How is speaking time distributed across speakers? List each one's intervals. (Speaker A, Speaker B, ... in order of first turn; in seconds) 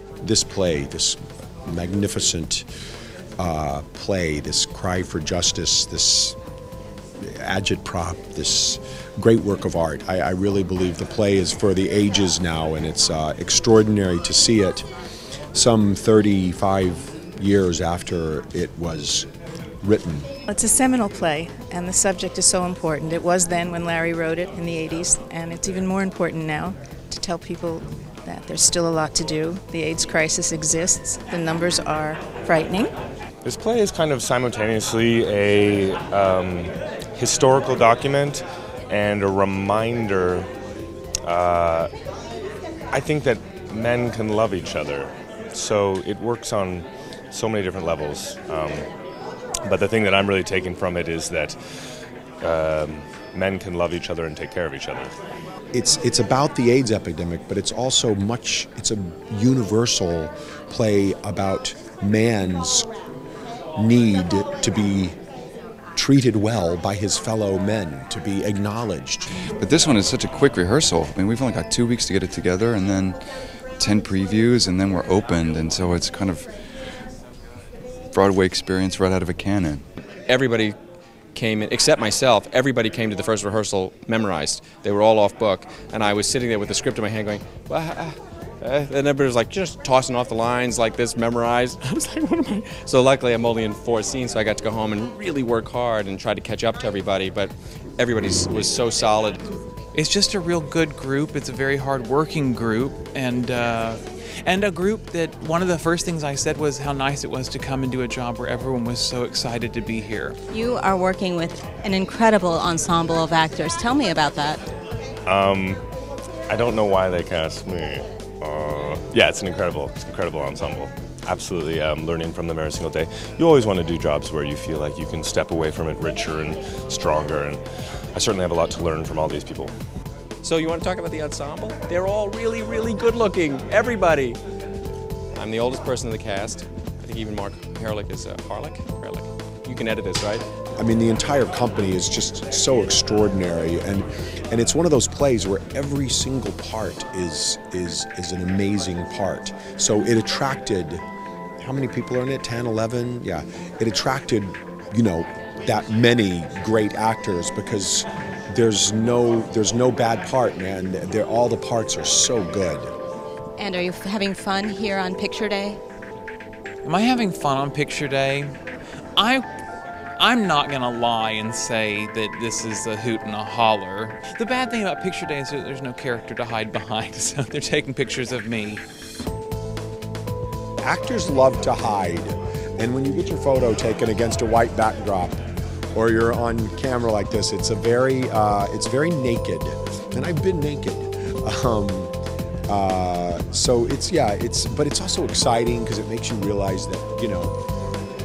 Speaker A: 0.2-2.6, 3.4-6.3, 7.2-14.8, 15.5-19.3, 19.8-20.3, 55.7-62.9, 63.8-65.2, 65.9-69.3, 140.8-151.0, 151.6-162.9, 180.8-185.4, 185.9-192.1, 192.7-197.6
Speaker B: 20.5-32.9
Speaker C: 33.4-40.5, 41.3-41.9, 42.9-48.9, 49.6-51.6, 52.4-55.1, 115.3-115.8, 116.5-127.6, 128.1-129.7
Speaker D: 69.6-73.2, 73.8-76.6, 78.1-79.8
Speaker E: 80.3-80.8, 81.3-99.4, 130.4-134.4, 135.3-140.4
Speaker F: 99.9-110.3, 166.8-168.5, 169.2-169.4, 170.2-178.8
Speaker G: 110.5-114.6, 163.6-165.8